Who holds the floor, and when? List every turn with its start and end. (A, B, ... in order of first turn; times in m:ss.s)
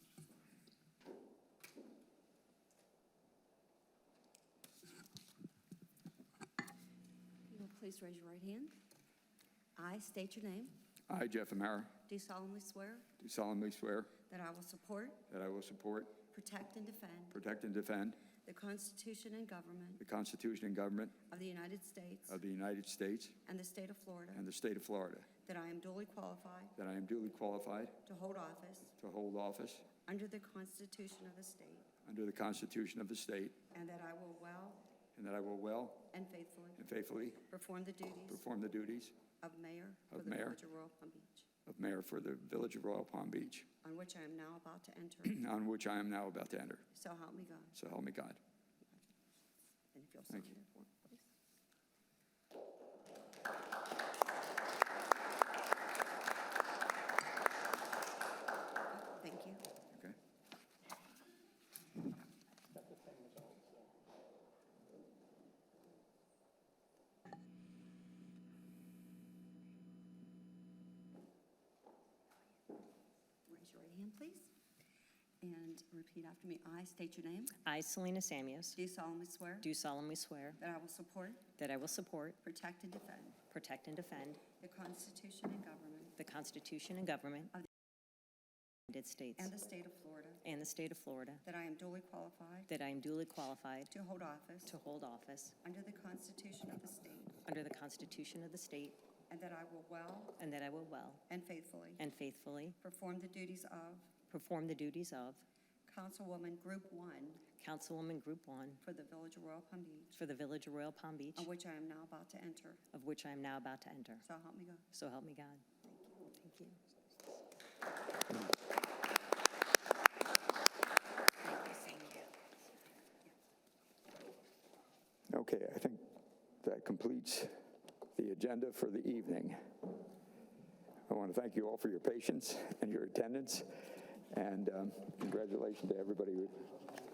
0:07.5-0:08.8 A
0:09.8-0:10.7 A
0:11.1-0:11.9 B
0:12.0-0:13.1 A
0:13.2-0:14.1 B
0:14.2-0:15.2 A
0:15.3-0:16.2 B
0:16.2-0:17.4 A
0:17.3-0:18.2 B
0:18.3-0:20.0 A
0:20.0-0:21.2 B
0:21.2-0:22.4 A
0:22.3-0:23.4 B
0:23.4-0:24.5 A
0:24.3-0:25.3 B
0:25.3-0:26.8 A
0:26.8-0:28.0 B
0:28.0-0:28.9 A
0:29.0-0:29.9 B
0:30.0-0:31.9 A
0:32.0-0:33.6 B
0:33.7-0:34.8 A
0:35.2-0:36.1 B
0:36.1-0:36.8 A
0:36.8-0:37.4 B
0:37.4-0:38.4 A
0:38.3-0:39.1 B
0:39.4-0:41.5 A
0:40.1-0:40.6 B
0:41.7-0:43.7 B
0:43.8-0:45.4 A
0:45.2-0:46.8 B
0:46.9-0:47.8 A
0:47.7-0:48.4 B
0:49.9-0:51.2 A
0:58.9-0:59.6 A
1:13.5-1:14.5 A
1:15.4-1:17.5 A
1:17.6-1:18.8 C
1:18.7-1:19.7 A
1:19.6-1:20.6 C
1:20.6-1:21.5 A
1:21.6-1:22.4 C
1:22.4-1:23.4 A
1:23.5-1:24.4 C
1:24.5-1:26.2 A
1:26.2-1:27.5 C
1:28.9-1:29.5 C
1:29.4-1:30.4 A
1:30.4-1:31.4 C
1:31.4-1:32.7 A
1:32.7-1:33.9 C
1:33.9-1:34.8 A
1:34.6-1:35.5 C
1:35.6-1:37.4 A
1:37.4-1:39.0 C
1:39.3-1:40.4 A
1:40.4-1:41.2 C
1:41.3-1:42.1 A
1:42.0-1:42.8 C
1:42.8-1:44.2 A
1:44.3-1:45.4 C
1:45.8-1:47.4 A
1:47.6-1:48.8 C
1:48.8-1:50.2 A
1:50.1-1:51.5 C
1:51.3-1:52.8 A
1:52.9-1:54.2 C
1:54.2-1:54.8 A
1:54.9-1:56.8 C
2:01.4-2:02.2 C
2:05.3-2:07.6 B
2:08.1-2:09.7 B
2:11.1-2:16.7 B